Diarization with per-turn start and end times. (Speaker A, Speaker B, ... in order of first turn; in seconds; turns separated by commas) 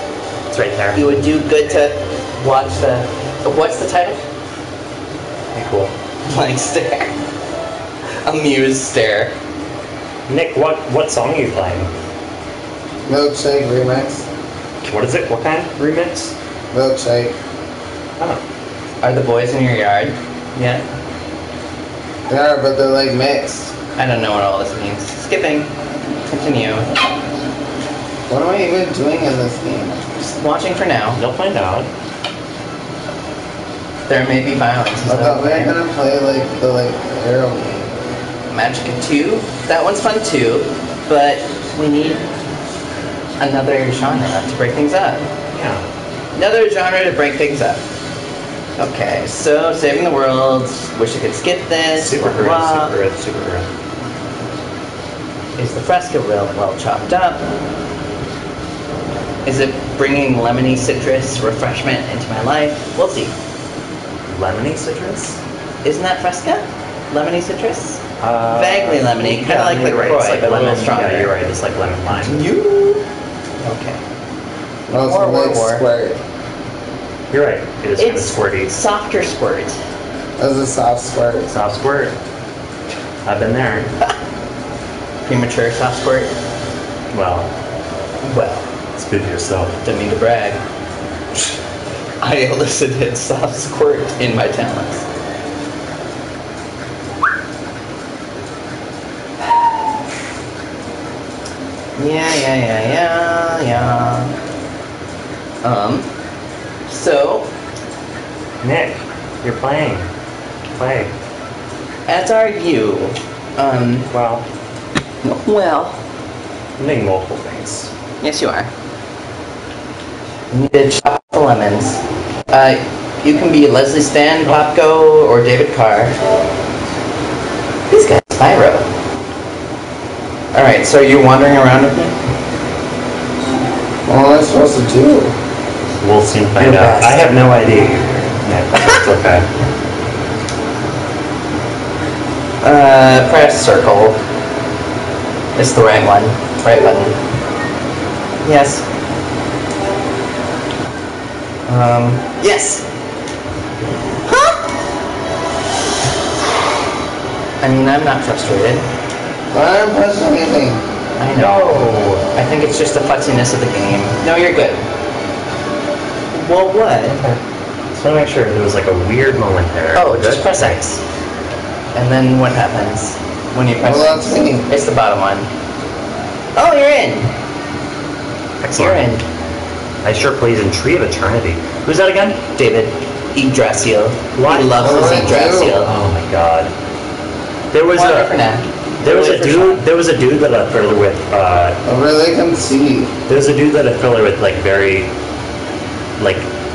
Speaker A: 0.5-1.1, Speaker B: 0.9-4.2, Speaker A: 5.5-5.9, Speaker B: 6.3-7.1, Speaker B: 8.2-9.3, Speaker A: 10.3-11.9, Speaker C: 13.1-14.3, Speaker A: 14.8-16.3, Speaker C: 16.7-17.4, Speaker B: 19.0-20.8, Speaker C: 22.3-23.7, Speaker B: 24.0-25.7, Speaker B: 26.3-26.9, Speaker C: 28.3-30.4, Speaker B: 30.4-31.2, Speaker A: 31.1-31.9, Speaker B: 34.1-35.7, Speaker C: 35.0-38.0, Speaker B: 38.5-42.2, Speaker B: 43.4-45.3, Speaker A: 45.5-45.8, Speaker B: 46.3-47.8, Speaker B: 48.8-52.9, Speaker A: 51.9-53.7, Speaker B: 55.6-57.4, Speaker B: 59.5-63.3, Speaker A: 64.3-65.4, Speaker B: 65.8-71.3, Speaker A: 68.2-72.4, Speaker B: 72.1-73.0, Speaker B: 73.6-74.0, Speaker C: 74.9-76.2, Speaker B: 74.9-75.8, Speaker A: 77.3-78.8, Speaker B: 78.0-79.8, Speaker C: 80.4-81.5, Speaker A: 81.5-82.2, Speaker A: 83.2-83.9, Speaker B: 85.2-86.3, Speaker A: 87.1-87.5, Speaker B: 88.2-88.7, Speaker A: 88.9-89.8, Speaker B: 89.8-90.6, Speaker B: 92.2-95.0, Speaker B: 102.0-104.3, Speaker B: 105.6-106.1, Speaker B: 106.9-107.5, Speaker A: 108.6-110.1, Speaker A: 110.7-111.1, Speaker B: 112.1-114.1, Speaker A: 114.1-114.4, Speaker B: 115.2-116.0, Speaker A: 116.8-117.9, Speaker B: 118.2-118.7, Speaker B: 120.5-126.2, Speaker B: 127.9-128.9, Speaker B: 130.5-132.1, Speaker C: 134.1-135.3, Speaker A: 136.0-139.4, Speaker B: 136.6-137.3, Speaker B: 142.6-144.2, Speaker B: 145.5-147.2, Speaker B: 148.4-148.8, Speaker B: 151.7-152.8, Speaker B: 154.3-154.6, Speaker B: 157.6-158.8, Speaker C: 159.5-160.8, Speaker B: 161.2-164.8, Speaker A: 161.4-162.2, Speaker B: 166.3-167.2, Speaker A: 167.9-170.8, Speaker B: 169.9-171.0, Speaker B: 171.9-175.5, Speaker C: 173.8-174.7, Speaker B: 176.6-177.3, Speaker A: 178.6-179.1, Speaker B: 178.7-179.2, Speaker A: 180.0-182.4, Speaker B: 182.6-185.9, Speaker A: 184.3-186.7, Speaker C: 184.8-185.8, Speaker A: 187.7-188.3, Speaker B: 187.9-189.8, Speaker A: 189.0-191.8, Speaker C: 191.8-193.1, Speaker A: 193.3-195.1, Speaker A: 196.2-196.5